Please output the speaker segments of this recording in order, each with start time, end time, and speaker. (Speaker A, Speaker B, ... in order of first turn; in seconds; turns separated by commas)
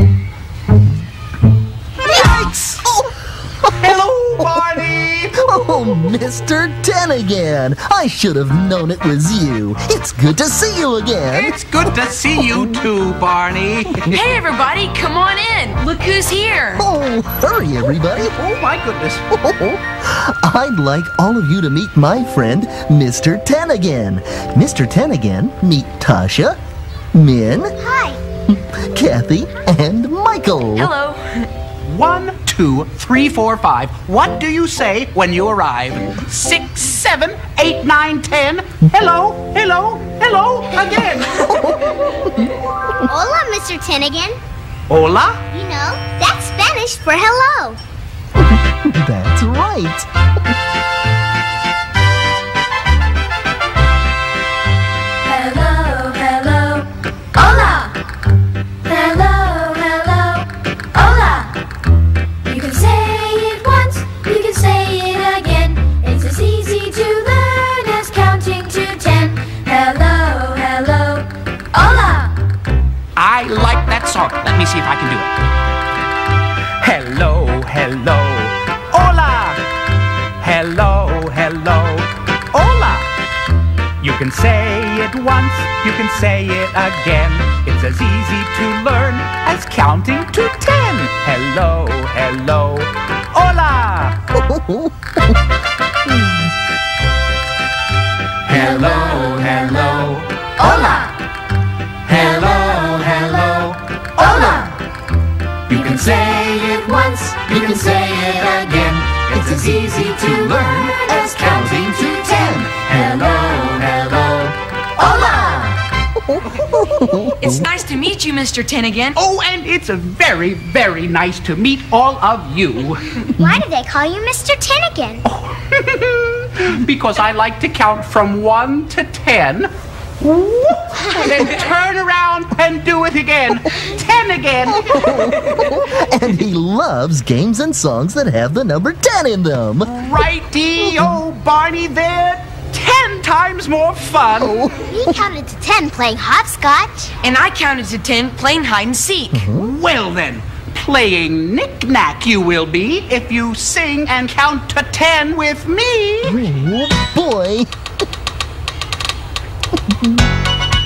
Speaker A: 2.1-2.9, Speaker B: 2.1-3.1, Speaker A: 3.8-5.5, Speaker B: 5.4-11.6, Speaker A: 11.3-14.1, Speaker B: 12.5-12.8, Speaker C: 14.1-16.8, Speaker B: 16.8-18.3, Speaker A: 18.2-19.2, Speaker B: 19.3-26.6, Speaker B: 27.1-27.7, Speaker D: 27.8-28.2, Speaker B: 28.5-30.9, Speaker C: 30.8-31.5, Speaker A: 31.8-41.8, Speaker B: 41.4-42.5, Speaker D: 43.0-44.4, Speaker A: 44.9-45.4, Speaker D: 45.5-47.8, Speaker B: 48.4-50.5, Speaker E: 55.2-57.9, Speaker E: 58.9-61.5, Speaker E: 62.4-72.3, Speaker A: 73.2-75.3, Speaker A: 76.8-79.6, Speaker A: 80.4-83.1, Speaker A: 84.0-94.2, Speaker B: 94.3-95.4, Speaker B: 96.0-96.5, Speaker A: 98.5-100.2, Speaker E: 99.2-99.5, Speaker E: 100.6-101.1, Speaker A: 102.0-104.7, Speaker E: 104.2-104.7, Speaker A: 105.7-114.5, Speaker E: 110.8-113.8, Speaker B: 111.3-112.5, Speaker B: 115.0-115.7, Speaker E: 115.1-115.6, Speaker A: 115.1-115.7, Speaker B: 116.2-117.7, Speaker C: 117.4-119.2, Speaker A: 119.1-123.1, Speaker D: 123.4-125.2, Speaker A: 125.2-129.7, Speaker B: 130.3-131.3, Speaker A: 131.0-135.7, Speaker B: 134.8-140.0, Speaker A: 139.8-144.6, Speaker B: 144.4-145.2, Speaker D: 144.8-147.1, Speaker C: 147.2-149.4, Speaker B: 149.3-149.7, Speaker A: 149.5-156.4, Speaker B: 156.2-157.7, Speaker B: 159.7-160.2